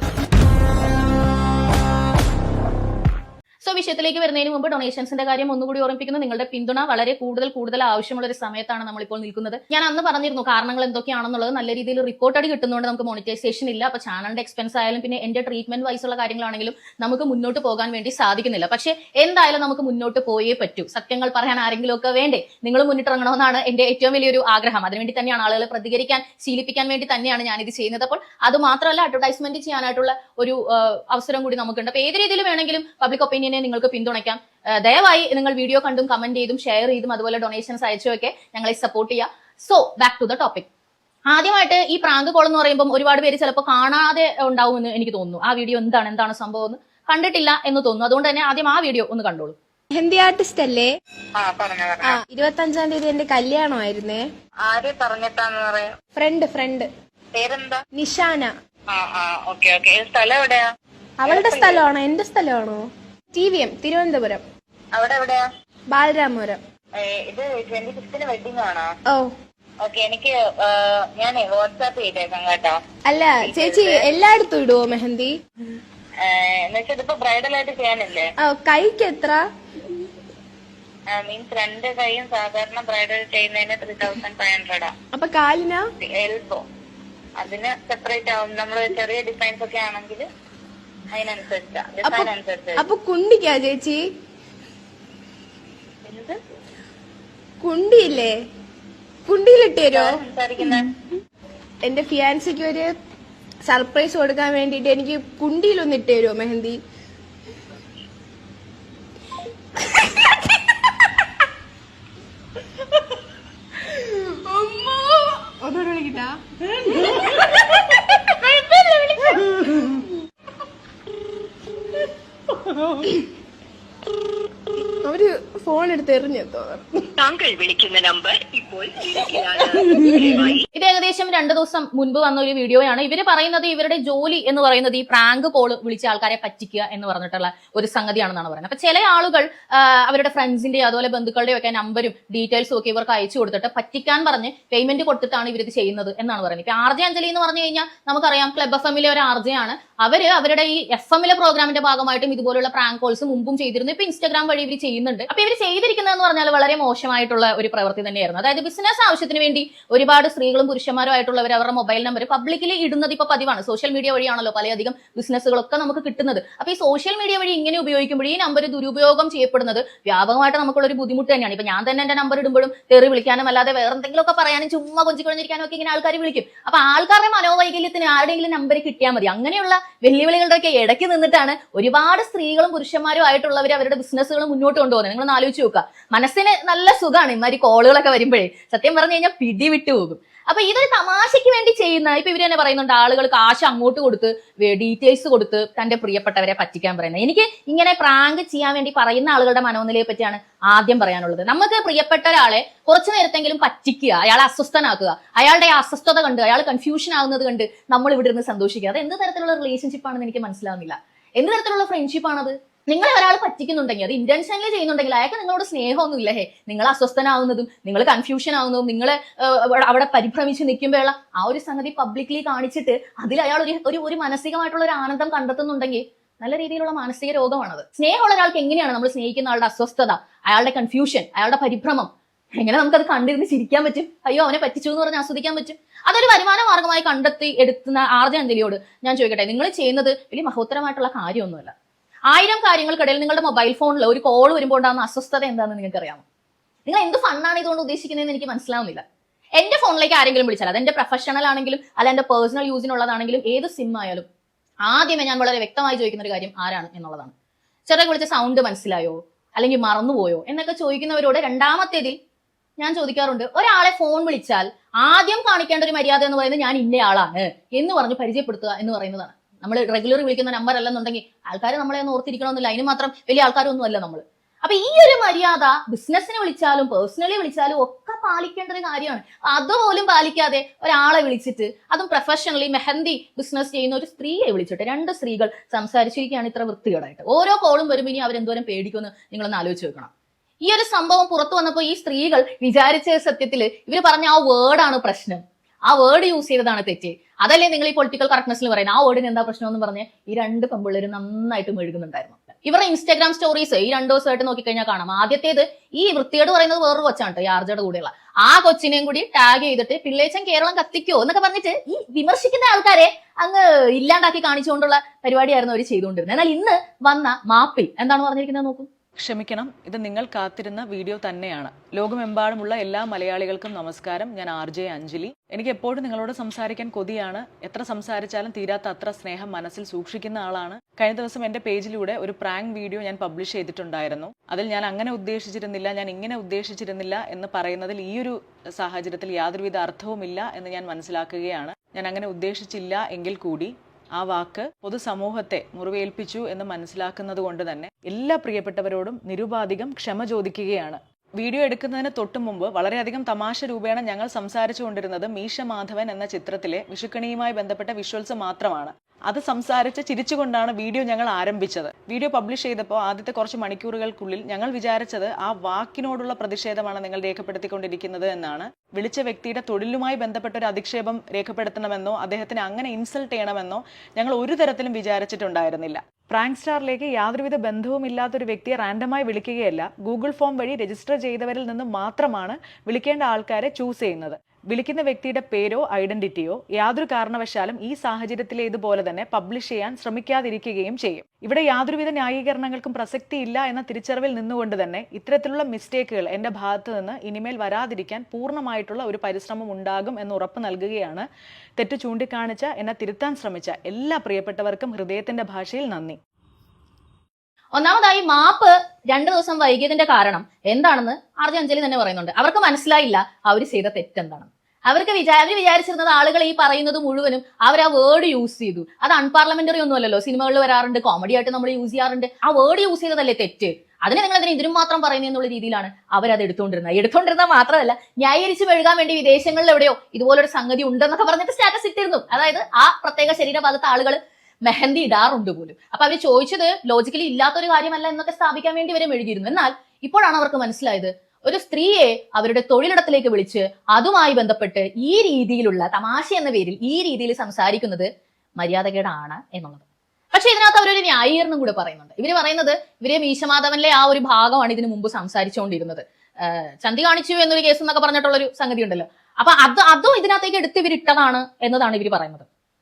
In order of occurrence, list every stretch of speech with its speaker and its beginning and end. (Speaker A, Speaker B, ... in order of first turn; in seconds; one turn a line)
Speaker A: 3.6-40.7
Speaker A: 41.3-49.6
Speaker B: 50.0-50.9
Speaker C: 51.4-52.2
Speaker B: 52.0-54.2
Speaker C: 54.7-55.9
Speaker B: 56.2-56.9
Speaker C: 57.3-57.8
Speaker B: 58.0-58.5
Speaker C: 58.9-60.6
Speaker B: 61.2-64.4
Speaker C: 61.2-61.9
Speaker C: 65.0-65.4
Speaker B: 65.9-66.6
Speaker C: 67.0-68.9
Speaker C: 69.8-72.8
Speaker B: 73.1-75.3
Speaker C: 73.4-74.1
Speaker C: 76.2-78.3
Speaker B: 78.4-79.4
Speaker C: 81.1-84.9
Speaker B: 85.2-85.8
Speaker C: 86.0-86.6
Speaker C: 87.4-90.2
Speaker C: 91.1-92.9
Speaker B: 92.0-94.0
Speaker C: 96.0-96.4
Speaker B: 97.6-98.3
Speaker B: 99.3-100.1
Speaker C: 99.9-100.9
Speaker B: 101.8-102.9
Speaker B: 103.7-106.8
Speaker B: 113.9-117.4
Speaker B: 118.4-119.6
Speaker B: 125.0-127.0
Speaker D: 127.2-130.6
Speaker A: 130.7-241.7
Speaker A: 242.3-246.2
Speaker A: 246.9-249.0
Speaker A: 249.6-254.3
Speaker A: 254.8-257.3
Speaker A: 257.9-262.2
Speaker A: 262.8-290.1
Speaker A: 290.6-318.9
Speaker E: 319.2-401.3
Speaker E: 401.8-406.2
Speaker A: 407.8-462.5